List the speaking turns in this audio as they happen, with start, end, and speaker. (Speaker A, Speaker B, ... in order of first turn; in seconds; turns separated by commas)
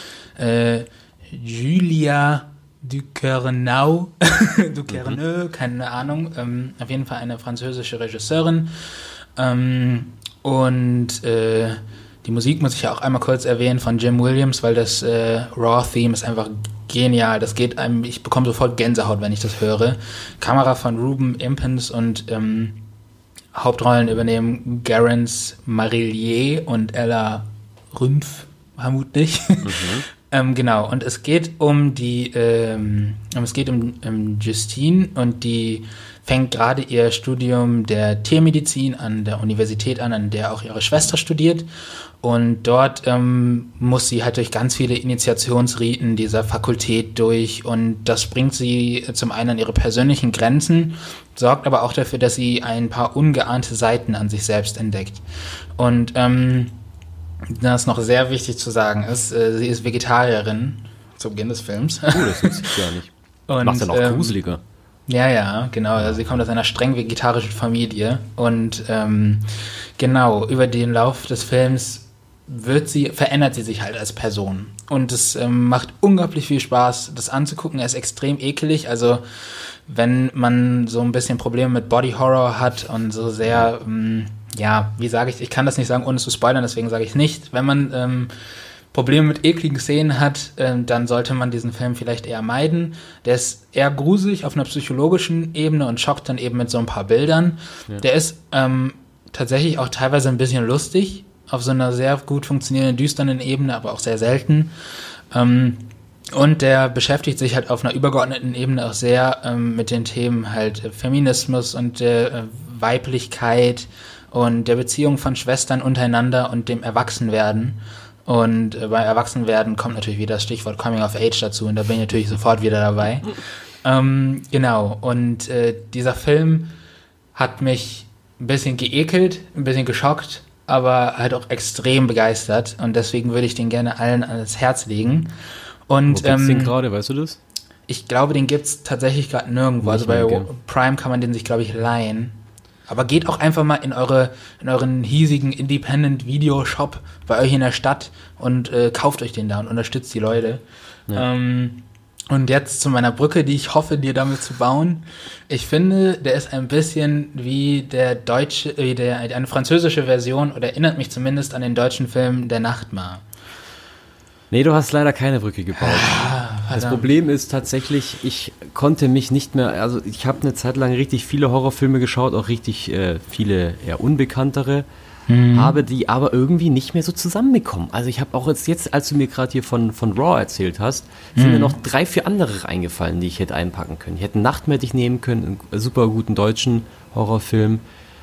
Speaker A: 0.4-22.8, Speaker A: 23.5-41.7, Speaker B: 29.6-30.1, Speaker A: 42.2-55.2, Speaker A: 55.8-56.8, Speaker A: 57.5-62.8, Speaker B: 62.1-63.1, Speaker A: 63.5-64.4, Speaker B: 63.6-64.6, Speaker A: 65.1-69.5, Speaker A: 70.0-88.3, Speaker A: 88.9-104.7, Speaker A: 105.3-126.7, Speaker A: 127.3-135.3, Speaker A: 135.9-136.8, Speaker B: 136.1-137.4, Speaker A: 137.9-142.4, Speaker B: 139.8-140.5, Speaker A: 142.9-163.2, Speaker B: 164.5-174.9, Speaker A: 165.8-167.1, Speaker A: 175.3-175.8, Speaker B: 175.5-187.8, Speaker A: 181.4-181.8